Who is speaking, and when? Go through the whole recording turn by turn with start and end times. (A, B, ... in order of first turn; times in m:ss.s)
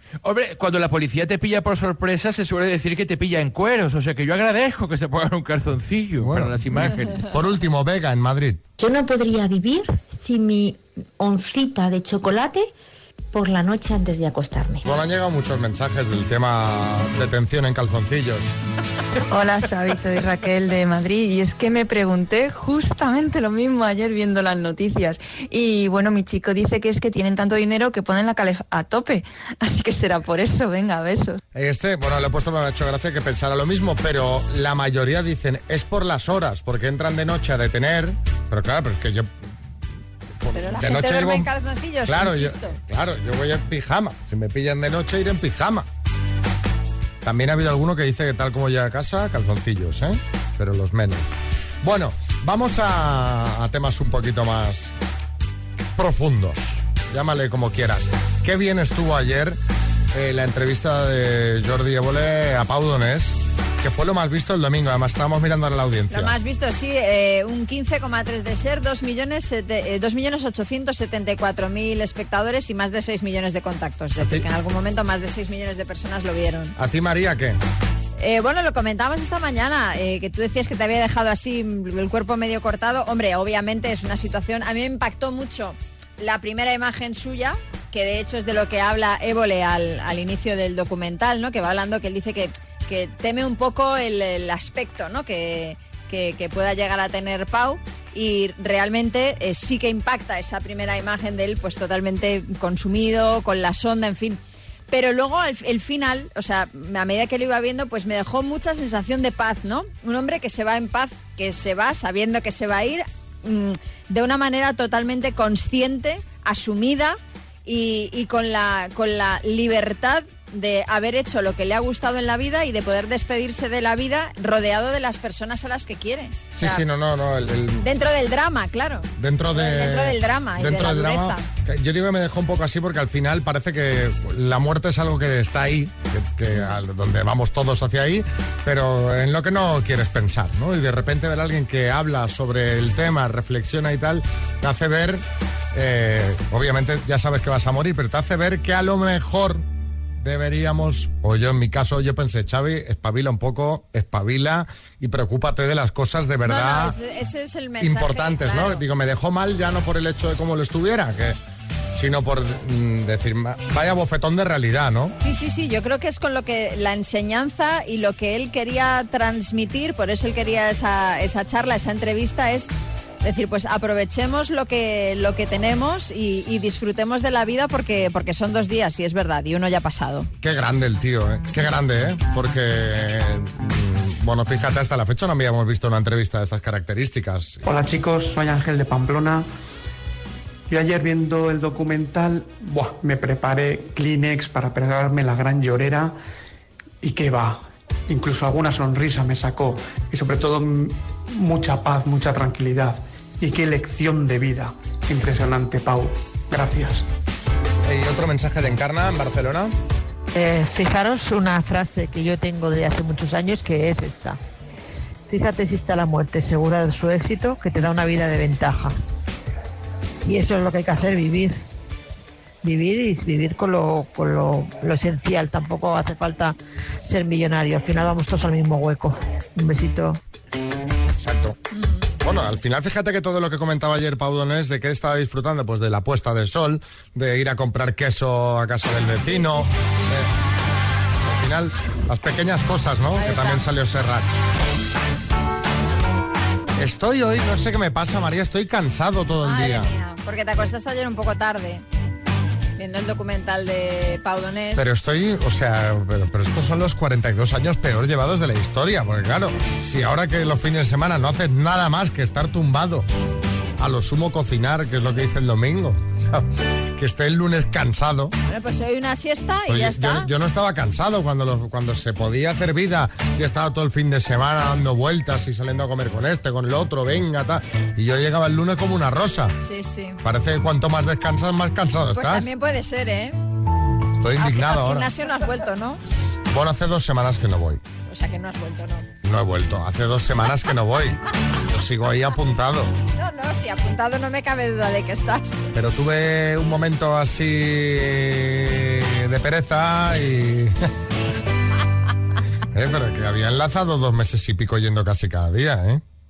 0:00.2-0:07.3 A
0:06.2-0:08.6 B
0:08.8-0:12.7 C
0:13.3-0:15.0 C
0:14.8-0:18.6 B
0:19.3-0:31.4 D
0:31.5-0:39.4 B
0:40.4-0:41.5 B
0:40.5-0:42.8 E
0:42.0-0:45.9 B
0:47.2-0:55.0 B
0:56.0-0:59.6 B
1:00.1-1:06.4 B
1:06.1-1:16.8 E
1:14.2-1:14.4 B
1:16.8-1:17.6 B
1:18.2-2:06.8 E
2:06.6-2:07.8 B
2:07.8-2:11.4 E
2:09.2-2:29.7 B
2:30.2-2:37.0 B
2:36.5-2:38.8 E
2:37.8-2:41.4 B
2:41.9-2:45.2 B
2:45.2-2:52.7 E
2:53.2-3:00.3 E
3:00.4-3:07.6 B
3:07.6-3:09.5 F
3:10.7-3:16.2 F
3:17.0-3:27.1 F
3:27.8-3:29.8 B
3:30.3-3:34.4 G
3:35.3-3:38.9 G
3:40.2-3:41.6 G
3:42.6-3:50.2 G
3:51.2-3:51.6 B
3:51.7-3:52.1 E
3:52.2-4:00.3 B
3:59.2-3:59.9 E
4:01.2-4:04.3 B
4:03.2-4:03.6 E
4:06.8-4:09.9 B
4:09.4-4:11.8 E
4:12.8-4:14.9 E
4:14.8-4:23.1 B
4:23.8-4:28.3 B
4:28.5-4:30.3 E
4:29.7-4:39.6 B
4:39.6-4:40.2 E
4:40.2-4:42.5 B
4:42.1-4:43.4 E
4:44.2-4:45.1 B
4:44.4-4:46.0 E
4:46.5-4:47.8 B
4:48.1-4:49.1 E
4:49.2-4:52.9 B
4:53.2-4:55.6 E
4:55.7-5:00.8 B
5:02.7-5:06.0 B